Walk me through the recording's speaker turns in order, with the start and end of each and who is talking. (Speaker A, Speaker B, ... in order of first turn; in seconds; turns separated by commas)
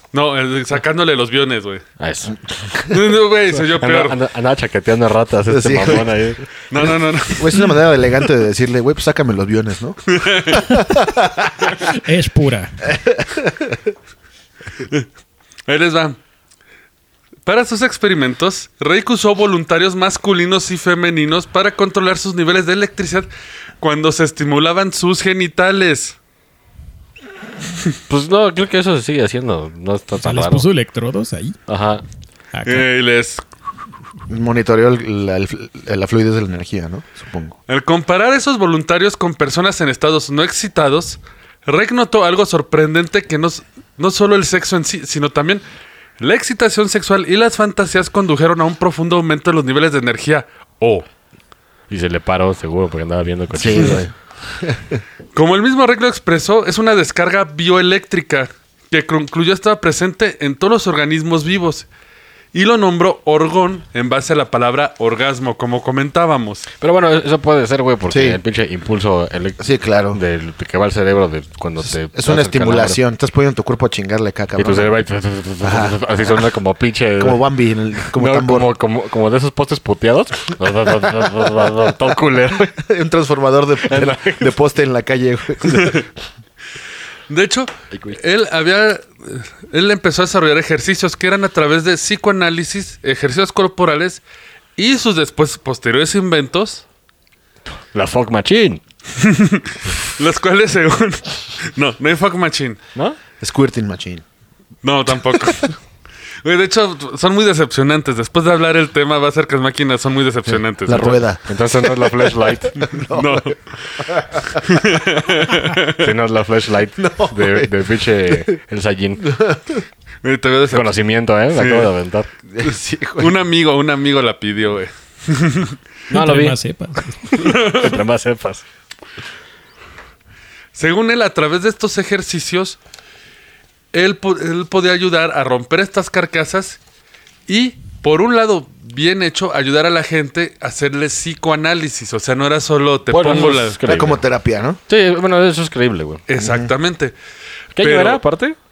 Speaker A: 0.1-1.8, Speaker B: 2.0-2.4, Speaker C: 2.6-3.0, Speaker A: 2.9-4.2, Speaker B: 3.5-6.5, Speaker C: 5.5-6.3, Speaker A: 6.7-7.7, Speaker C: 6.8-11.9, Speaker A: 10.1-10.7, Speaker D: 11.8-12.8, Speaker C: 12.9-13.8, Speaker A: 15.7-16.2, Speaker A: 17.5-23.3, Speaker A: 23.8-26.2, Speaker B: 28.1-30.7, Speaker D: 30.2-31.6, Speaker B: 31.7-32.0, Speaker D: 32.5-32.9, Speaker A: 32.7-33.4, Speaker C: 34.3-37.6, Speaker A: 37.7-45.6, Speaker A: 46.2-51.1, Speaker B: 51.9-54.1, Speaker C: 53.5-55.0, Speaker A: 55.4-61.9, Speaker A: 62.5-66.7, Speaker B: 66.8-73.0, Speaker C: 68.1-68.4, Speaker C: 69.6-70.2, Speaker C: 71.8-74.9, Speaker B: 74.6-77.4, Speaker C: 75.6-76.0, Speaker C: 77.2-78.7, Speaker B: 78.0-82.7, Speaker C: 82.6-86.1, Speaker B: 83.8-84.6, Speaker B: 85.7-86.0, Speaker A: 87.3-94.2, Speaker A: 94.8-96.8, Speaker B: 97.9-98.8, Speaker A: 99.2-102.8, Speaker C: 103.4-104.2, Speaker A: 104.8-105.8, Speaker A: 106.4-111.2, Speaker C: 110.5-115.0, Speaker B: 110.9-112.9, Speaker A: 113.1-114.0, Speaker A: 114.5-116.1, Speaker B: 115.9-119.3, Speaker C: 117.0-117.7, Speaker C: 119.3-119.8, Speaker A: 120.2-120.9, Speaker B: 120.7-122.3, Speaker A: 121.5-121.9, Speaker C: 122.5-123.3, Speaker A: 122.7-125.8, Speaker B: 126.1-126.6, Speaker D: 126.1-127.3, Speaker B: 127.2-128.6, Speaker A: 127.4-128.0, Speaker A: 130.8-132.8, Speaker A: 133.9-136.8, Speaker A: 137.5-143.8, Speaker B: 143.1-144.2, Speaker C: 143.8-144.8, Speaker B: 144.9-146.2, Speaker A: 146.3-147.2, Speaker C: 146.4-146.7, Speaker B: 147.8-148.6, Speaker A: 147.8-148.2